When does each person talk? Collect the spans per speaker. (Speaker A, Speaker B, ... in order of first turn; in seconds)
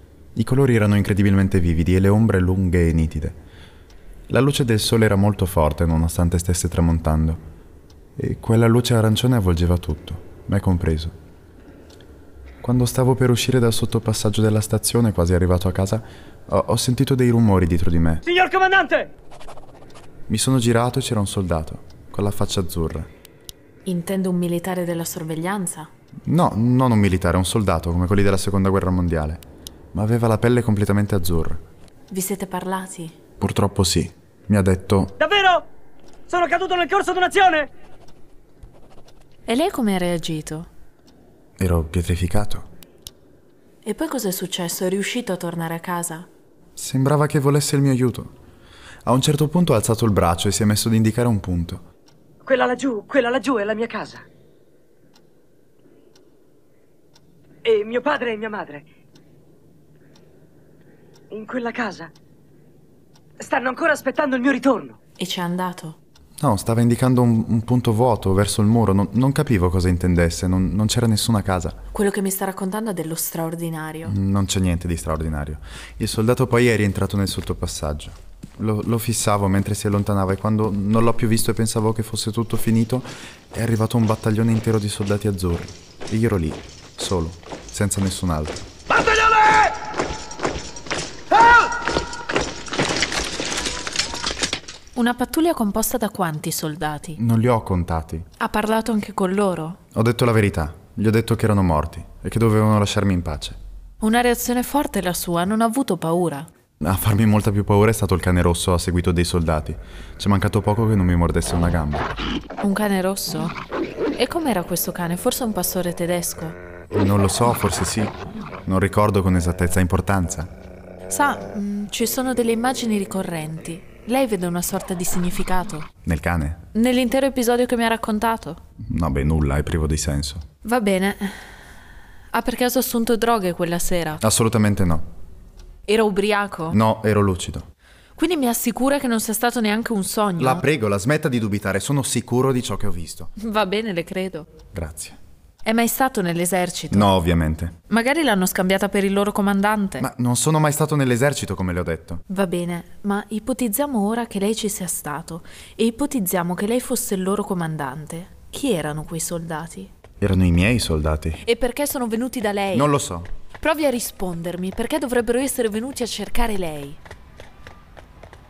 Speaker A: 0.3-3.4, 4.3-7.4, 8.2-11.2, 12.6-18.2, 20.3-23.1, 26.3-31.6, 33.4-35.1, 41.6-42.7, 46.8-48.3, 49.1-51.8, 66.4-71.8, 74.0-88.7, 97.2-98.3, 100.0-103.6, 106.8-112.1, 116.9-118.2, 118.7-120.5, 126.0-126.6, 128.8-130.4, 134.2-135.1, 136.7-137.7, 140.4-143.3, 144.7-145.2, 146.9-147.8, 150.0-152.2, 160.2-161.4, 162.7-163.3
Speaker B: 18.2-19.1, 35.2-35.7, 36.3-37.7, 52.4-54.3, 57.6-58.9, 61.3-62.1, 63.4-65.0
Speaker C: 23.9-25.9, 32.1-33.2, 39.5-40.7, 43.8-46.3, 65.2-66.0, 71.9-74.2, 95.0-97.2, 98.4-99.8, 104.0-106.5, 112.6-113.5, 114.2-116.6, 121.1-125.9, 126.7-128.6, 130.6-131.6, 132.3-134.2, 135.9-136.8, 138.2-140.6, 143.4-144.5, 145.6-147.1, 147.9-150.1, 152.3-159.9, 161.4-162.9, 163.6-167.0